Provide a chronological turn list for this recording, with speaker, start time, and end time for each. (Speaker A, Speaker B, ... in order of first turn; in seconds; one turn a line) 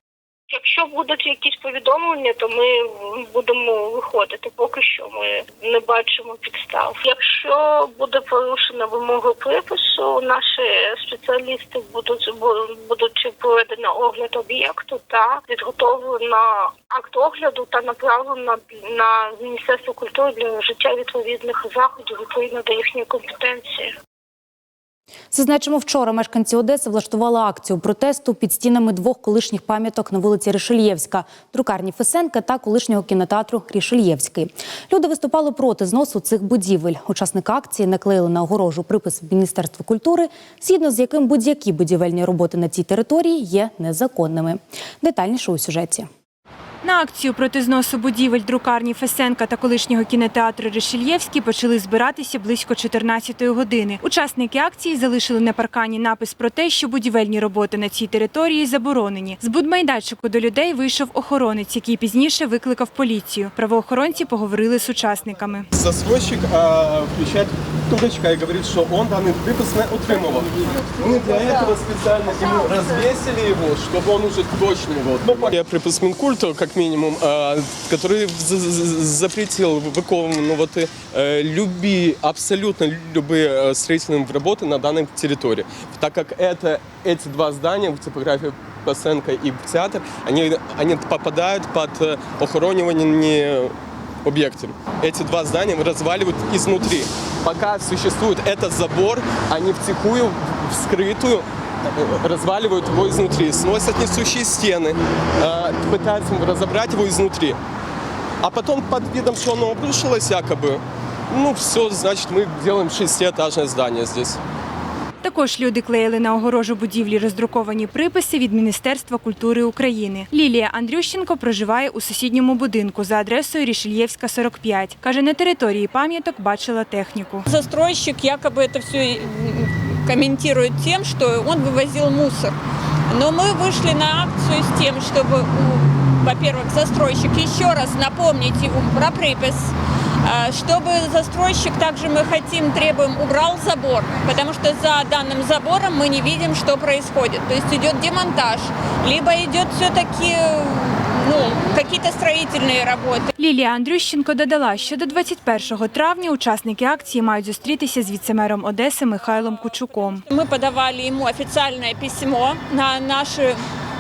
Speaker A: 0.5-23.9
Speaker B: 25.3-46.1
Speaker C: 46.8-65.7
Speaker D: 65.7-93.7
Speaker D: 94.2-107.6
Speaker D: 108.4-114.4
Speaker C: 115.2-127.5
Speaker E: 127.5-132.6
Speaker E: 133.1-139.7
Speaker E: 140.2-153.3
Speaker C: 153.4-160.2
Speaker E: 159.2-163.6